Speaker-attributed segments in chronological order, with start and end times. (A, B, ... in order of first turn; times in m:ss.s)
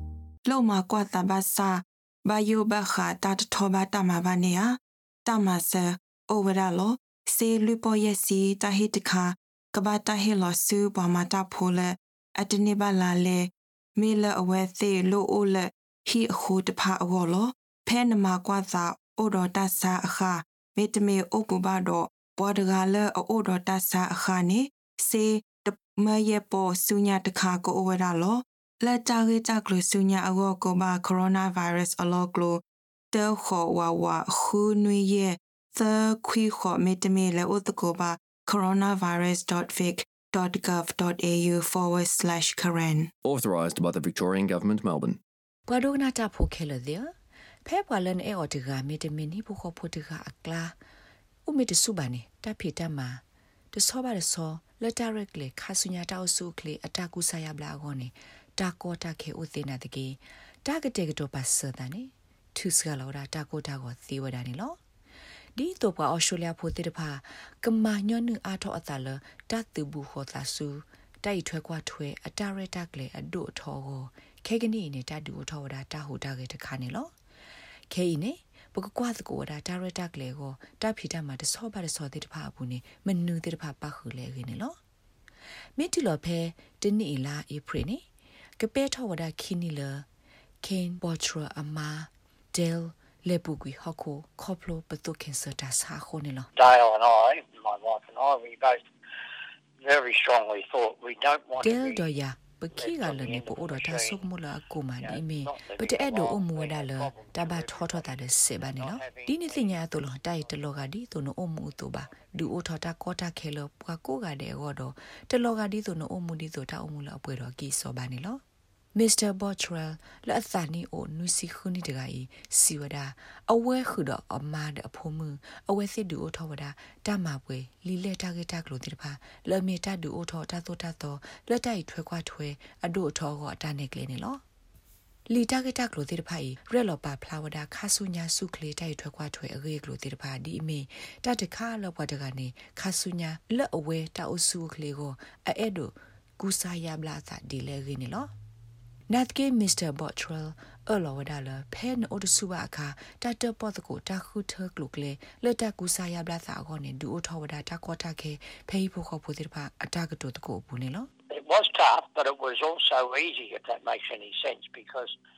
0:00.4-0:43.1 A
0:43.2-0:45.2 B
0:45.7-0:47.1 C
0:47.6-0:50.7 C
0:51.4-1:04.8 C
1:05.6-1:17.1 C
1:17.9-1:24.8 C
1:25.8-1:28.0 C
1:28.6-1:30.0 C
1:30.6-1:36.5 C
1:36.6-1:38.8 D
1:39.8-1:42.1 D
1:41.6-1:58.4 C
1:42.7-1:44.3 D
1:45.0-1:50.8 D
1:52.0-1:52.5 D
1:58.9-2:14.4 C
2:15.3-2:28.3 C
2:29.1-2:41.1 C
2:41.3-2:45.2 D